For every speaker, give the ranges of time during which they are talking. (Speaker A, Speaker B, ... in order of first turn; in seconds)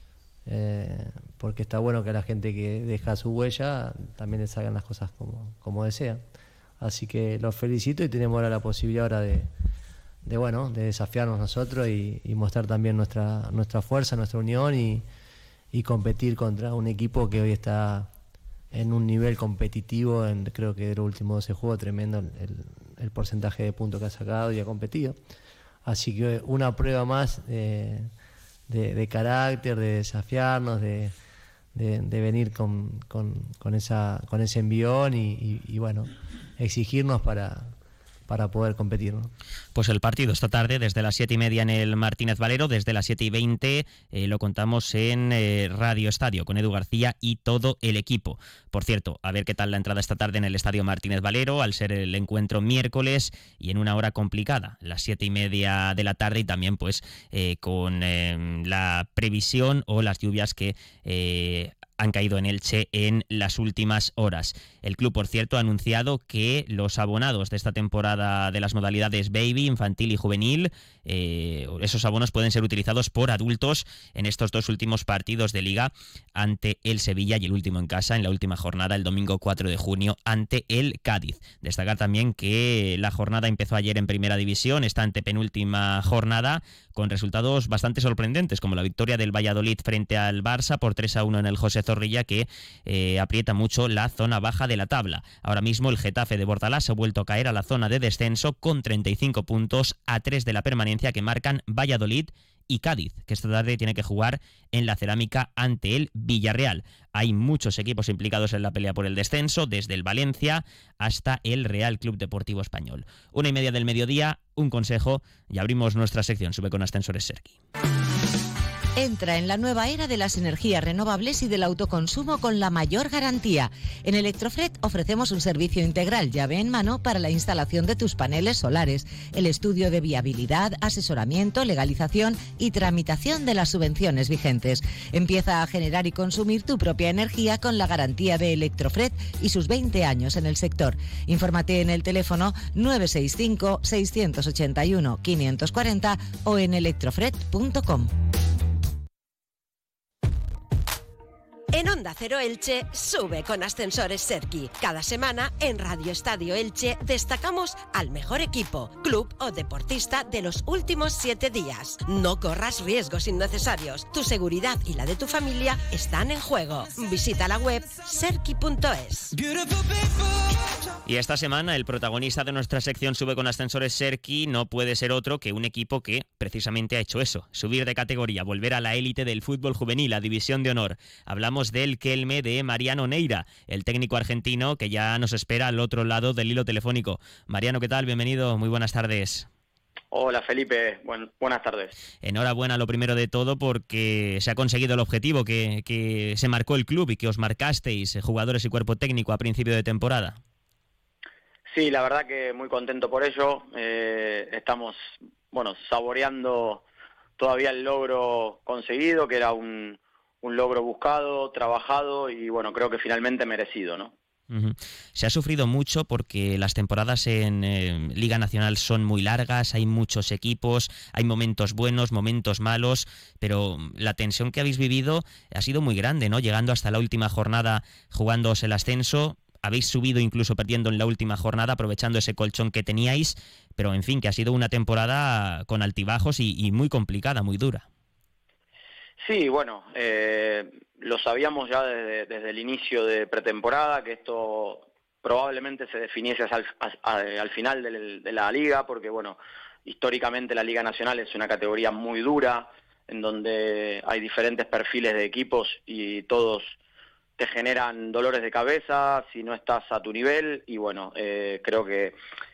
Speaker A: 0.5-6.2, 6.8-9.5, 10.2-15.0, 15.7-18.1, 18.7-25.1, 25.8-28.1, 28.7-31.1, 31.7-37.7, 38.3-39.3
Speaker B: 39.7-117.5, 171.0-189.5, 192.2-200.4, 214.5-237.8
Speaker C: 119.0-148.1
Speaker D: 151.7-169.3
Speaker E: 190.1-191.9, 201.7-204.9, 205.5-206.8, 207.4-214.1, 239.2-256.7, 257.4-262.1